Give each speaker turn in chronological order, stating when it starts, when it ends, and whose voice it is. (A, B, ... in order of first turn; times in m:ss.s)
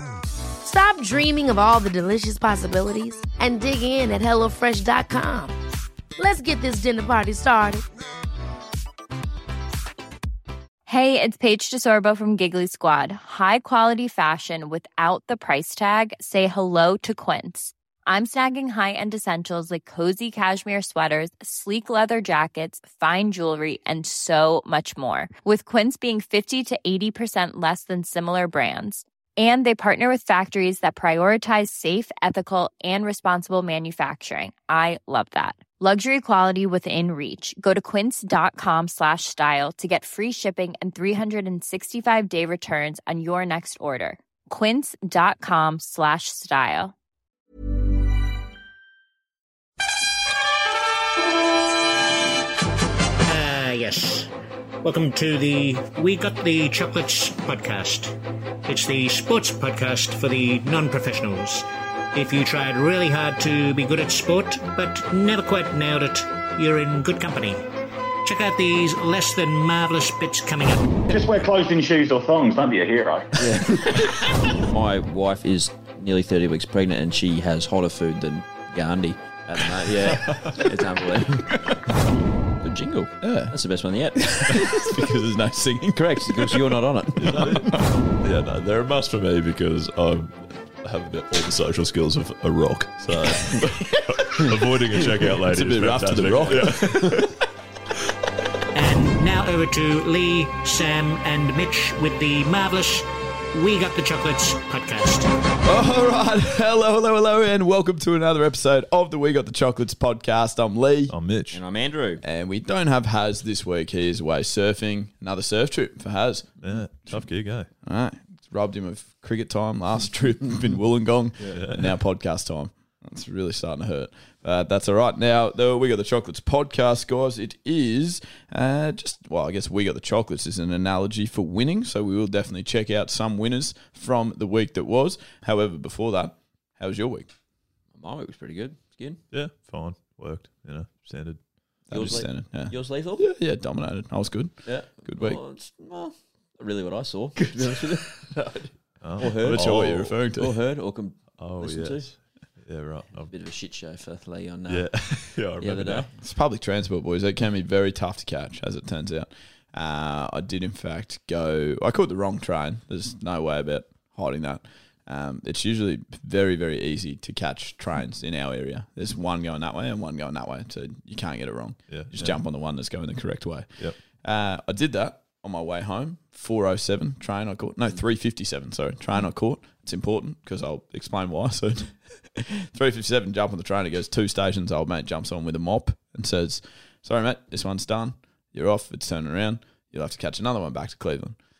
0:00.6-0:05.6 A
0:06.2-0:07.8 A
0:10.9-0:46.9 B
0:53.2-0:54.3 C
0:54.8-1:07.6 C
1:08.2-1:11.0 C
1:11.1-1:13.3 D
1:13.4-1:21.6 E
1:20.3-1:20.6 F
1:22.6-1:25.0 E
1:23.2-1:23.6 G
1:24.1-1:27.9 G
1:26.0-1:27.6 E
1:27.2-1:37.4 F
1:35.4-1:37.3 G
1:36.6-1:37.1 E
1:38.7-1:45.3 C
1:45.6-1:51.1 G
1:51.1-1:51.6 F
1:51.5-1:52.2 E
1:52.2-1:56.7 G
1:56.6-1:57.7 F
1:57.8-2:17.3 G
2:01.5-2:01.9 F
2:17.9-2:19.2 E
2:19.3-2:21.4 F
2:21.9-2:23.2 E
2:21.9-2:25.4 G
2:24.6-2:32.0 E
2:27.4-2:27.8 G
2:29.0-2:30.2 F
2:29.2-2:30.6 G
2:31.4-2:33.3 F
2:33.3-2:34.9 E
2:34.7-2:36.1 F
2:35.6-2:36.1 E
2:36.2-3:11.4 G
2:51.9-2:52.4 F